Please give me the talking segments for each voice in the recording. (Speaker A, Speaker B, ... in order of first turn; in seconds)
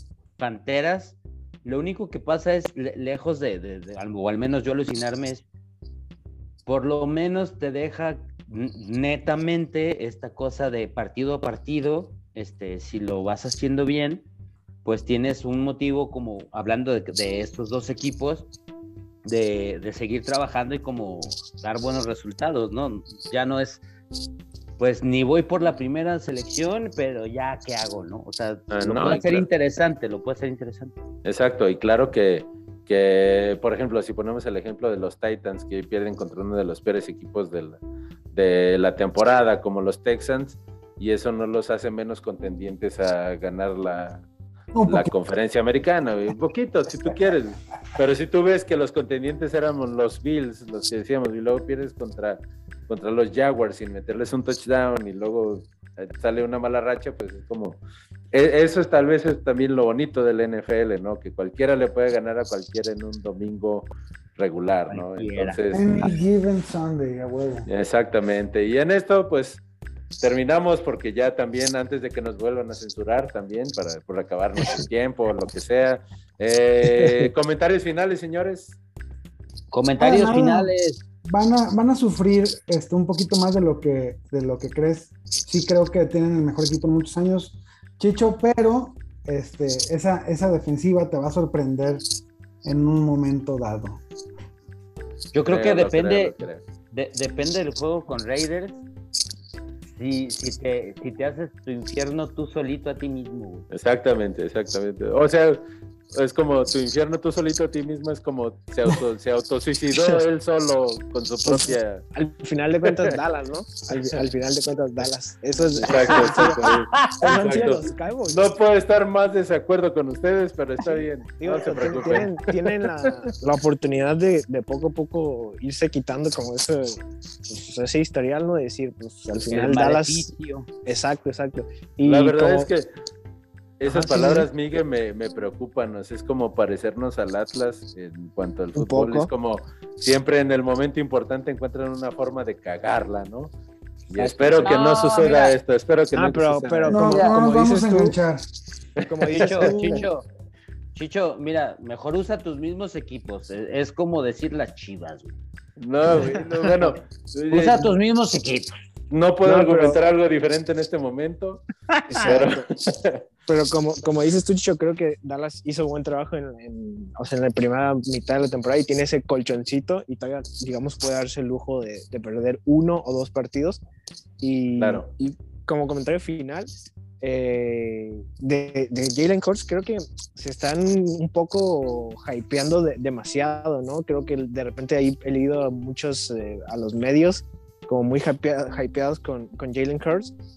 Speaker A: 0.4-5.5, 6.7-14.3, 14.8-18.5, 19.2-23.8, 24.8-31.0, 64.9-65.6, 79.7-81.0, 95.3-96.3, 96.9-98.8, 99.9-103.7, 116.5-117.2, 129.5-130.7, 144.3-145.6, 149.3-150.3, 150.9-155.4, 157.5-158.7, 161.9-162.3
Speaker B: 28.7-29.5, 31.2-37.8, 38.3-44.3, 44.9-57.8, 58.3-66.1, 67.7-69.6, 70.2-78.8, 95.5-96.6, 103.7-112.0, 115.8-122.4, 123.0-123.3, 132.0-132.9, 133.8-143.5, 144.1-147.2, 149.0-149.7, 155.8-157.9, 159.1-161.6, 162.2-163.2, 174.8-175.1
Speaker C: 44.7-45.1, 65.7-67.7, 80.0-80.7, 81.2-92.0, 92.6-94.0, 146.9-148.4
Speaker D: 76.8-77.3, 109.9-110.2, 111.5-118.5, 120.8-130.3, 130.8-132.7, 133.9-134.5, 138.8-139.3, 144.2-144.8, 146.1-148.2, 149.1-150.1, 159.4-160.0, 162.1-162.7, 163.5-173.8, 174.4-176.7, 177.2-190.3